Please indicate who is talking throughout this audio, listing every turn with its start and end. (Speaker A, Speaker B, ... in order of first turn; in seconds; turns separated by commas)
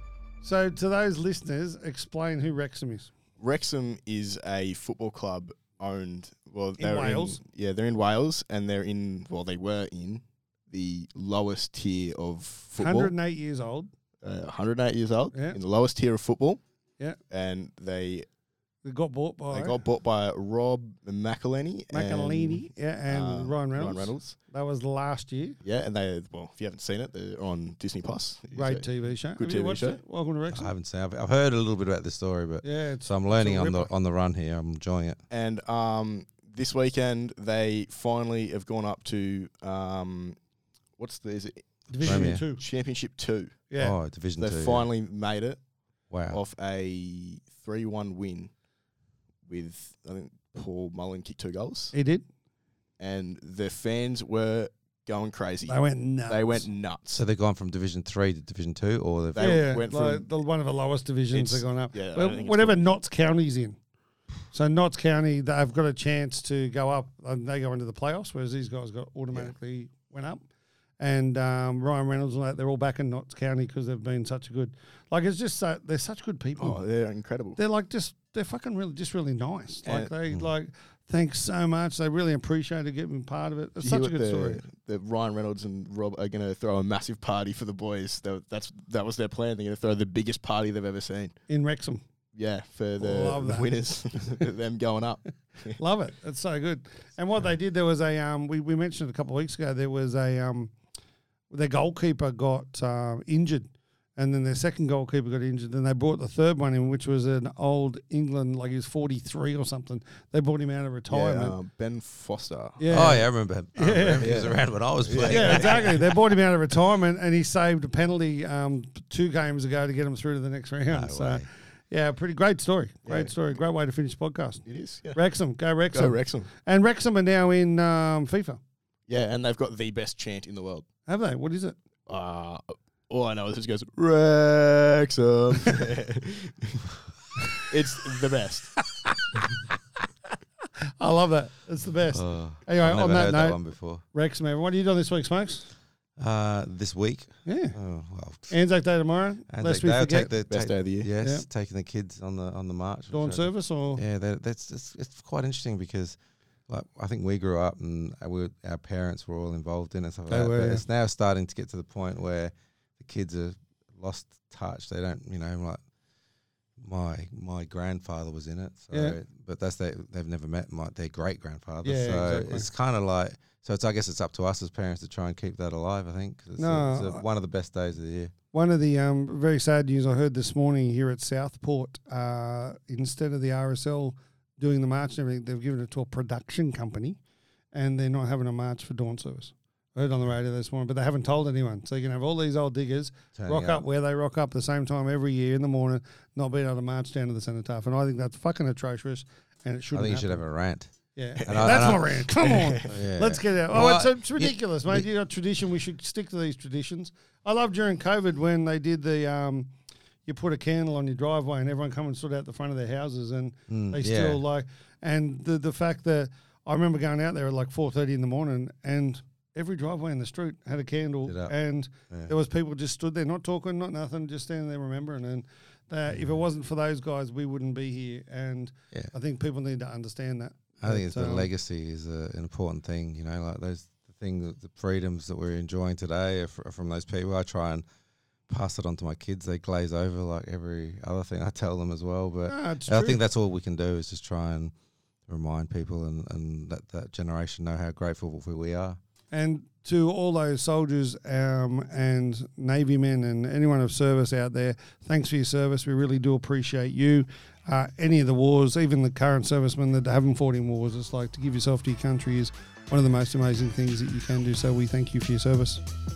Speaker A: 0.4-3.1, Speaker B: 3.4-13.1, Speaker A: 6.8-7.4, Speaker A: 12.8-13.9, Speaker B: 14.2-16.6, Speaker B: 17.3-18.3, Speaker A: 18.8-19.8, Speaker B: 19.5-24.4, Speaker A: 21.9-25.6, Speaker B: 25.6-30.0, Speaker A: 28.5-30.7, Speaker C: 30.5-35.2, Speaker A: 32.6-33.9, Speaker B: 35.3-40.4, Speaker B: 41.0-43.6, Speaker A: 41.9-42.6, Speaker C: 42.0-42.4, Speaker A: 43.7-44.0, Speaker C: 43.8-44.9, Speaker B: 44.4-45.6, Speaker C: 46.1-46.4, Speaker B: 46.3-48.5, Speaker B: 49.5-51.9, Speaker A: 51.9-52.2, Speaker B: 53.0-57.2, Speaker A: 55.7-56.6, Speaker C: 57.1-59.6, Speaker B: 59.3-60.3, Speaker A: 59.4-63.8, Speaker B: 61.3-62.9, Speaker A: 64.5-70.4, Speaker A: 71.0-76.8, Speaker B: 76.6-77.6, Speaker A: 77.6-84.6, Speaker B: 79.8-80.1, Speaker B: 83.8-91.3, Speaker A: 91.5-92.0, Speaker B: 92.3-95.8, Speaker A: 93.0-93.8, Speaker A: 95.8-100.7, Speaker A: 101.5-111.5, Speaker B: 111.1-112.8, Speaker A: 112.8-114.4, Speaker C: 112.9-115.8, Speaker B: 114.2-116.1, Speaker A: 115.2-124.6, Speaker C: 120.9-121.5, Speaker B: 123.0-123.3, Speaker B: 124.7-125.2, Speaker A: 125.1-128.6, Speaker B: 125.9-126.5, Speaker B: 129.1-130.8, Speaker A: 131.1-131.8, Speaker B: 132.1-137.0, Speaker B: 137.5-138.8, Speaker A: 138.8-139.1, Speaker A: 141.0-143.6, Speaker C: 142.1-144.0, Speaker A: 144.1-145.7, Speaker C: 146.2-148.5, Speaker A: 147.4-147.8, Speaker A: 148.5-150.3, Speaker C: 149.5-165.8, Speaker B: 150.5-151.1, Speaker A: 153.1-154.0, Speaker A: 160.3-160.8, Speaker C: 166.8-178.3, Speaker A: 168.9-169.2, Speaker A: 171.8-172.7, Speaker A: 176.6-177.2, Speaker A: 178.5-187.2, Speaker A: 187.7-200.4, Speaker C: 193.3-193.8, Speaker C: 199.9-200.9, Speaker A: 201.1-209.7, Speaker B: 201.4-202.8, Speaker C: 201.4-202.1, Speaker C: 202.8-205.1, Speaker A: 210.2-231.5, Speaker C: 213.7-214.4, Speaker C: 221.3-221.5, Speaker C: 230.8-237.8, Speaker C: 238.5-244.7, Speaker A: 242.5-243.2, Speaker C: 245.3-249.0, Speaker A: 249.3-265.8